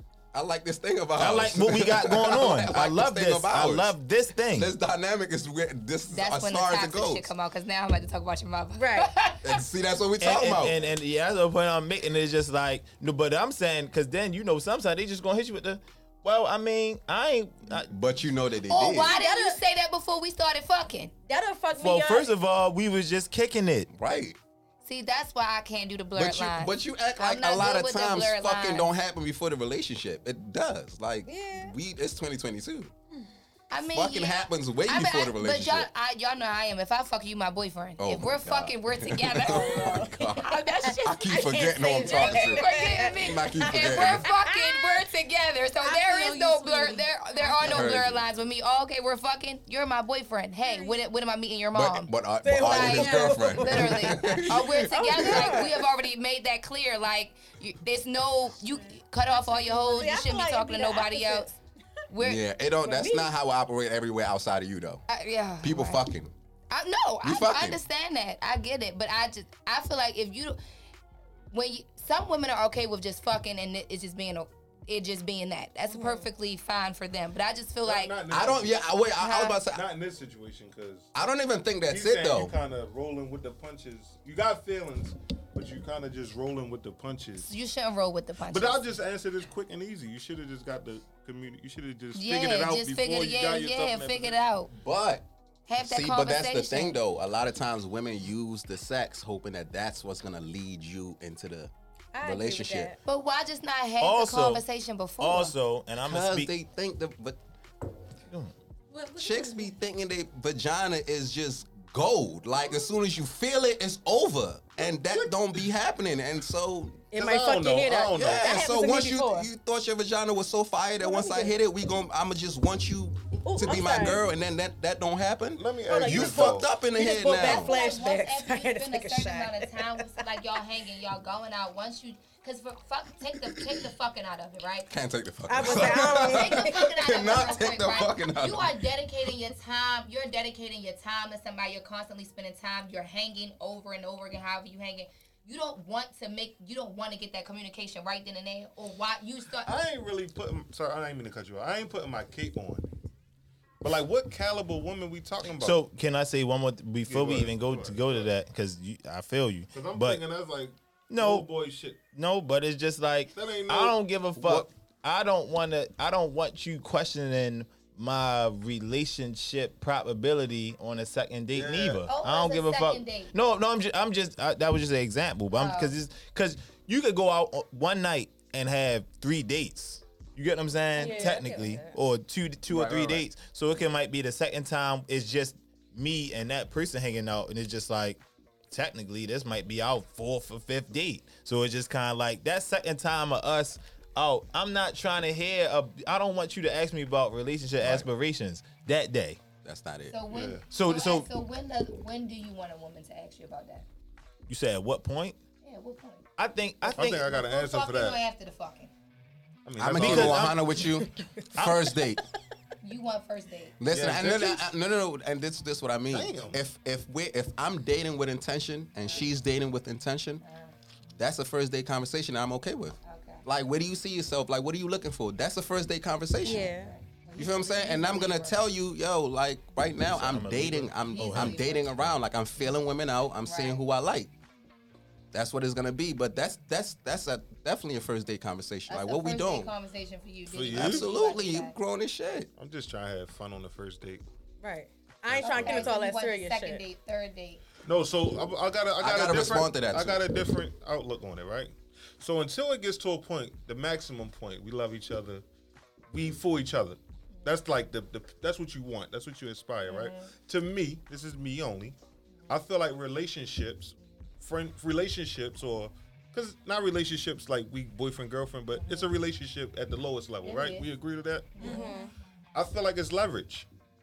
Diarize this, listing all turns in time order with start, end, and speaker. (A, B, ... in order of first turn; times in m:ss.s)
0:00.3-0:03.9 A
0:01.2-0:04.7 B
0:04.5-0:07.3 A
0:06.1-0:09.6 C
0:08.8-0:09.1 D
0:09.4-0:10.8 A
0:10.2-0:17.9 B
0:17.8-0:19.2 A
0:18.7-0:21.1 C
0:19.0-0:19.6 D
0:21.3-0:22.3 D
0:21.8-0:23.9 B
0:23.9-0:24.4 A
0:24.8-0:28.9 C
0:26.2-0:32.9 A
0:31.2-0:31.7 D
0:33.7-1:01.5 C
0:33.9-0:35.9 A
0:38.0-0:44.3 A
0:39.4-0:44.9 D
0:45.8-0:47.7 E
0:47.6-0:48.2 A
0:50.7-0:50.9 D
0:51.7-0:55.7 A
0:52.4-0:55.8 D
0:59.4-1:01.6 D
1:02.1-1:02.4 C
1:02.2-1:05.0 A
1:02.8-1:03.3 D
1:05.1-1:06.0 C
1:05.6-1:06.3 A
1:06.7-1:10.6 C
1:07.2-1:07.8 A
1:11.5-1:18.2 C
1:15.9-1:16.3 D
1:17.8-1:18.9 F
1:18.3-1:19.8 A
1:19.2-1:19.6 C
1:19.6-1:21.1 F
1:21.1-1:22.6 A
1:21.9-1:27.5 F
1:27.4-1:28.8 C
1:28.5-1:34.4 F
1:32.1-1:34.7 C
1:34.7-1:35.3 A
1:35.7-1:37.0 C
1:35.8-1:43.0 A
1:42.1-1:43.0 D
1:43.0-1:45.5 C
1:44.0-1:44.6 B
1:45.2-1:46.5 B
1:46.0-1:47.4 A
1:48.3-1:48.5 B
1:48.9-1:49.8 E
1:49.2-1:57.2 A
1:54.8-1:55.7 F
1:57.1-1:59.5 D
1:57.2-1:58.6 F
1:58.2-2:07.8 A
2:01.0-2:01.5 D
2:03.4-2:04.2 D
2:05.6-2:06.7 F
2:05.8-2:10.1 D
2:07.2-2:15.0 C
2:14.9-2:18.8 A
2:15.5-2:16.9 D
2:15.6-2:29.7 C
2:29.6-2:32.8 F
2:33.8-2:35.8 F
2:35.6-2:40.2 B
2:37.1-2:38.3 F
2:39.7-2:42.0 F
2:41.1-2:41.5 B
2:42.1-3:19.4 B
2:43.3-2:44.0 F
2:51.5-2:52.1 F
2:52.1-2:53.3 C
2:55.5-2:55.9 C
3:01.0-3:02.0 D
3:02.8-3:03.1 A
3:17.8-3:18.1 F
3:19.6-3:20.2 A
3:20.1-3:23.8 C
3:20.3-3:20.6 F
3:20.7-3:21.3 B
3:24.5-3:25.4 B
3:25.6-3:26.3 C
3:26.4-3:27.2 B
3:26.9-3:28.2 F
3:27.2-3:28.9 C
3:29.7-3:30.7 F
3:29.8-3:32.2 A
3:30.0-3:30.6 B
3:32.8-3:33.8 C
3:33.8-3:40.4 A
3:33.9-3:34.7 F
3:36.1-3:36.6 F
3:40.4-3:40.7 C
3:41.2-3:46.7 A
3:43.0-3:43.4 C
3:46.4-3:46.9 D
3:46.4-3:48.6 C
3:47.4-3:54.3 A
3:50.0-3:51.7 B
3:51.1-3:52.1 C
3:53.4-3:53.8 C
3:55.3-3:59.7 A
3:58.9-4:01.8 C
4:00.5-4:01.1 F
4:00.7-4:02.5 A
4:02.6-4:04.2 F
4:04.6-4:06.8 D
4:05.3-4:06.0 F
4:05.4-4:07.6 C
4:07.8-4:15.4 F
4:09.0-4:10.2 A
4:16.1-4:22.0 F
4:19.8-4:20.3 C
4:22.5-4:31.8 F
4:30.4-4:30.9 C
4:31.6-4:32.0 C
4:31.6-4:32.1 D
4:31.6-4:31.9 E
4:32.6-4:33.7 F